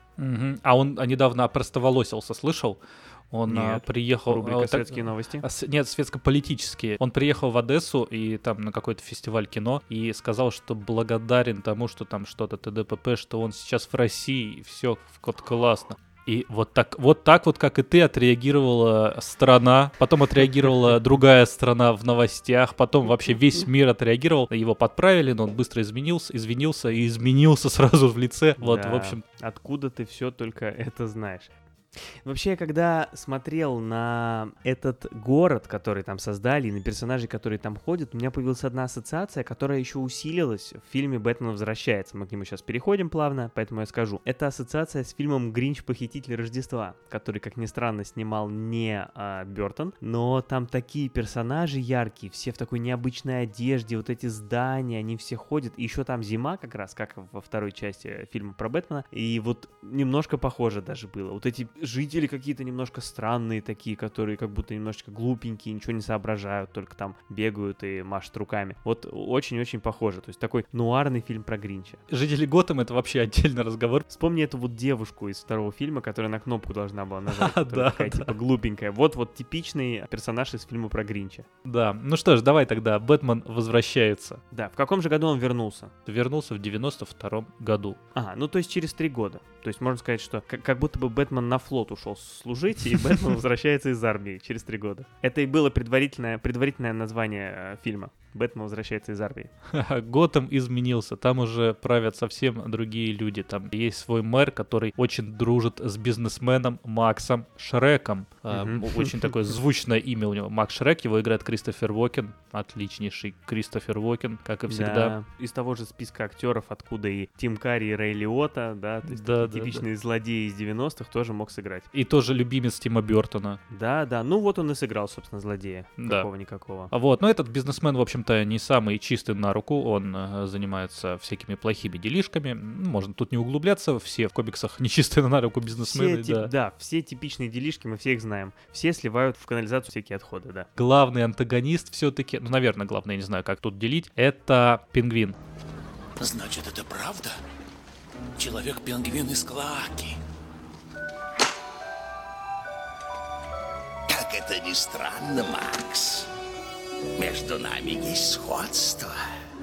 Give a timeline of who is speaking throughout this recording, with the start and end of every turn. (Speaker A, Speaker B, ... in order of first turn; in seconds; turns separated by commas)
Speaker A: 0.2-29.2, Speaker B: 3.5-5.5, Speaker B: 28.6-31.5, Speaker B: 32.2-72.0, Speaker A: 72.1-74.1, Speaker B: 74.1-81.5, Speaker A: 77.3-78.3, Speaker A: 81.7-84.4, Speaker B: 84.5-85.9, Speaker A: 86.1-88.0, Speaker B: 88.2-99.5, Speaker A: 99.7-115.2, Speaker B: 108.5-109.3, Speaker B: 114.7-121.9, Speaker A: 119.1-119.8, Speaker A: 121.9-123.6, Speaker B: 123.7-126.9, Speaker A: 126.0-126.3, Speaker A: 126.9-136.5, Speaker B: 135.9-140.7, Speaker A: 140.8-145.4, Speaker C: 146.2-147.4, Speaker C: 148.4-150.2, Speaker C: 154.1-156.3, Speaker C: 157.2-159.2